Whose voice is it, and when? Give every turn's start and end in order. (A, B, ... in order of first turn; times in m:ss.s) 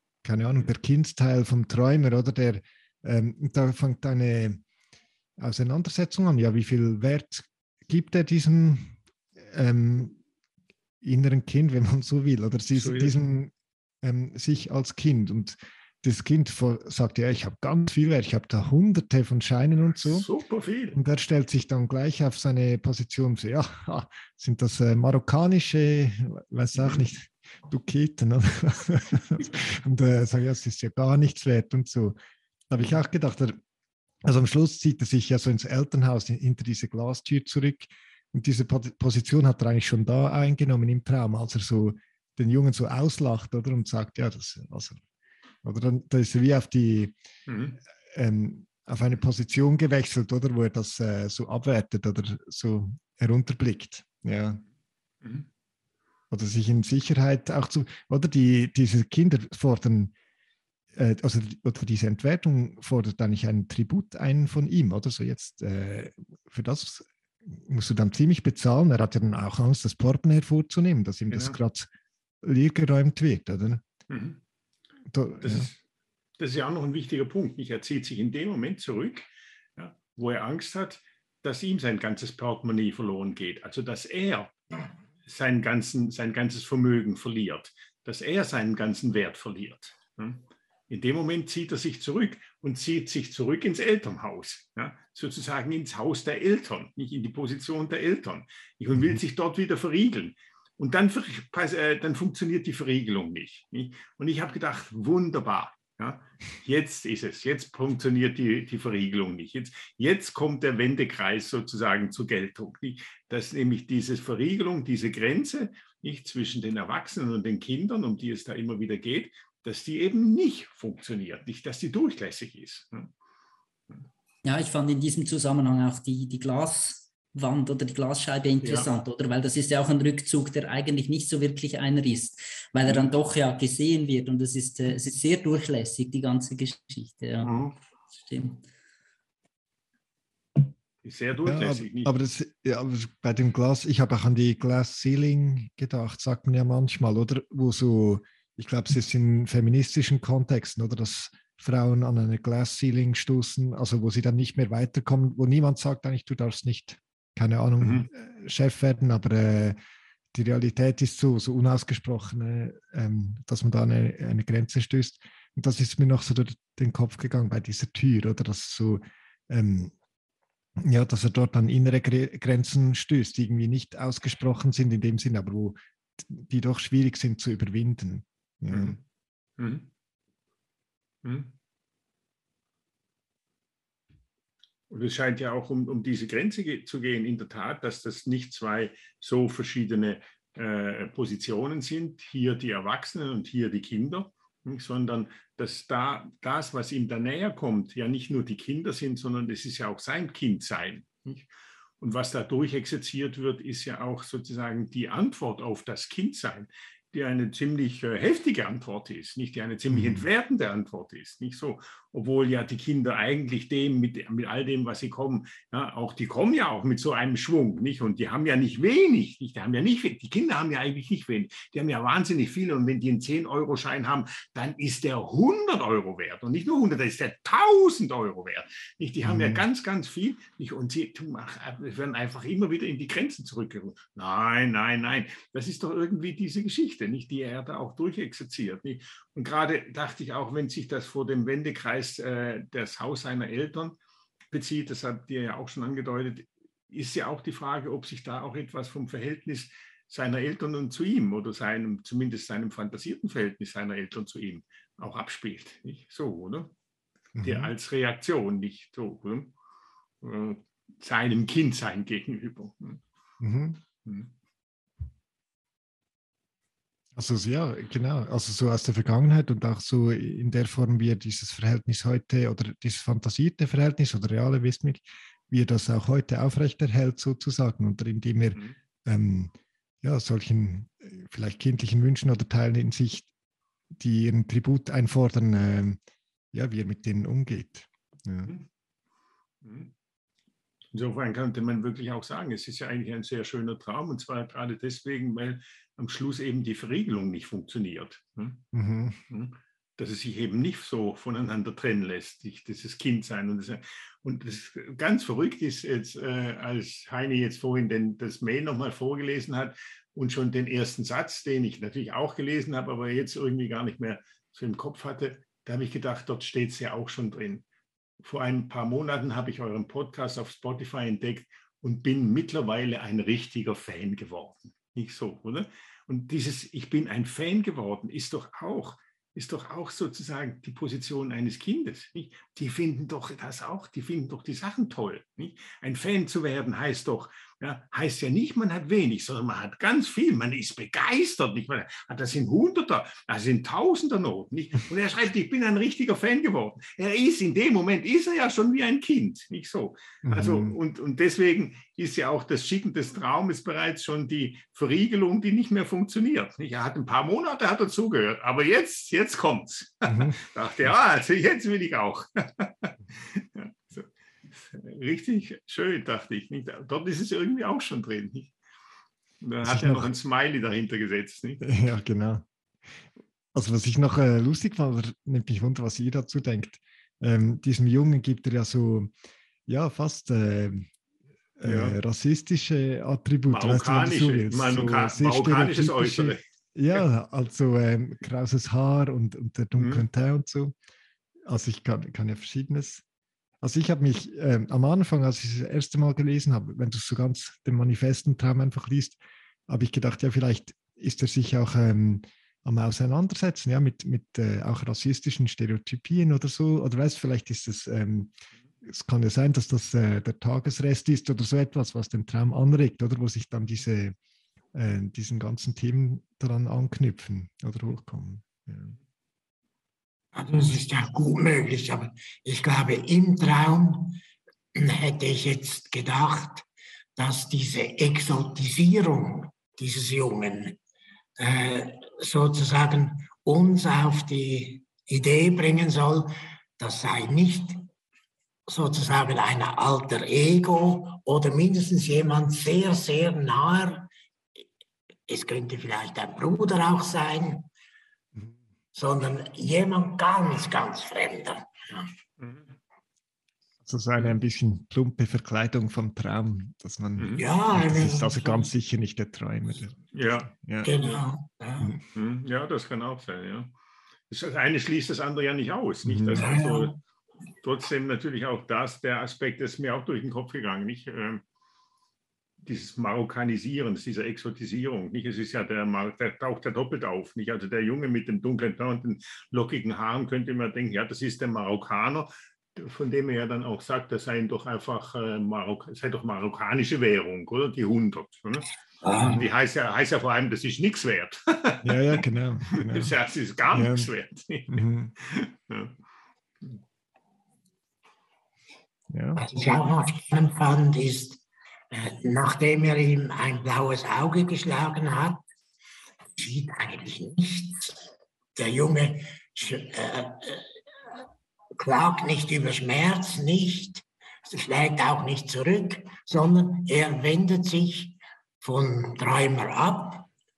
0:00.2-0:04.6 A
0:05.4-0:10.2 A
0:11.0-0:20.2 A
0:12.8-0:13.1 B
0:20.0-0:21.0 B
0:20.9-0:32.2 A
0:26.8-0:27.0 B
0:32.7-0:33.6 A
0:34.2-0:45.0 A
0:45.6-0:47.2 A
0:47.5-0:47.8 B
0:48.1-0:54.6 A
0:56.3-1:00.1 A
1:00.9-1:11.9 A
1:11.3-1:11.6 B
1:12.4-1:13.8 A
1:14.1-1:14.4 B
1:15.1-1:15.7 A
1:15.4-1:15.8 B
1:16.4-1:24.6 B
1:25.2-2:03.1 B
2:04.4-2:17.5 C
2:08.6-2:08.9 B
2:12.8-2:13.1 B
2:17.4-2:17.8 B
2:18.1-2:18.6 C
2:21.0-2:22.1 B
2:21.4-2:39.8 A
2:37.8-2:38.1 B
2:40.3-2:49.9 A
2:50.8-2:59.0 A
2:58.7-2:59.0 B
2:59.6-2:59.9 B
3:01.2-3:01.5 B
3:04.9-4:04.0 B
3:29.9-3:30.2 A
3:49.2-3:49.6 A
4:04.5-4:16.7 B
4:17.4-4:17.7 A
4:17.4-4:19.5 B
4:20.2-4:23.0 B
4:23.4-4:23.8 A
4:24.0-4:24.3 B
4:27.2-4:43.3 A
4:43.9-4:46.0 A
4:46.5-4:48.5 A
4:49.6-4:49.9 B
4:50.9-4:58.6 B
4:58.7-4:59.2 A
4:59.3-5:17.6 B
5:18.2-6:08.5 B
5:50.2-5:50.8 A
6:00.1-6:00.4 A
6:09.4-6:11.7 B
6:09.6-6:10.1 A
6:11.6-6:12.4 A
6:13.5-6:19.1 A
6:19.7-6:20.9 A
6:21.6-6:30.7 A
6:21.6-6:22.0 B
6:23.5-6:26.4 B
6:29.8-6:30.0 B
6:31.4-6:33.0 A
6:33.6-6:48.3 A
6:48.8-6:54.2 A
6:54.7-6:58.9 A
7:00.3-7:04.2 D
7:04.7-7:06.6 D
7:07.2-7:10.8 D
7:11.4-7:17.8 D
7:18.7-7:24.1 D
7:25.3-7:27.7 D
7:28.9-7:32.1 D
7:32.4-7:32.8 B
7:33.8-7:41.0 A
7:37.2-7:37.5 B
7:37.4-7:38.7 D
7:40.1-7:40.5 B
7:40.8-7:42.0 D
7:42.1-7:43.7 B
7:44.3-7:47.0 B
7:46.0-7:46.6 A
7:46.3-7:47.0 D
7:47.6-7:51.4 B
7:52.6-8:12.2 B
8:09.0-8:09.4 D
8:09.2-8:09.5 A
8:11.8-8:13.1 A
8:12.7-8:16.0 B
8:13.7-8:14.1 A
8:14.7-8:15.1 A
8:19.1-8:19.4 A
8:19.4-8:25.4 D
8:26.4-8:30.7 D
8:31.8-8:40.3 D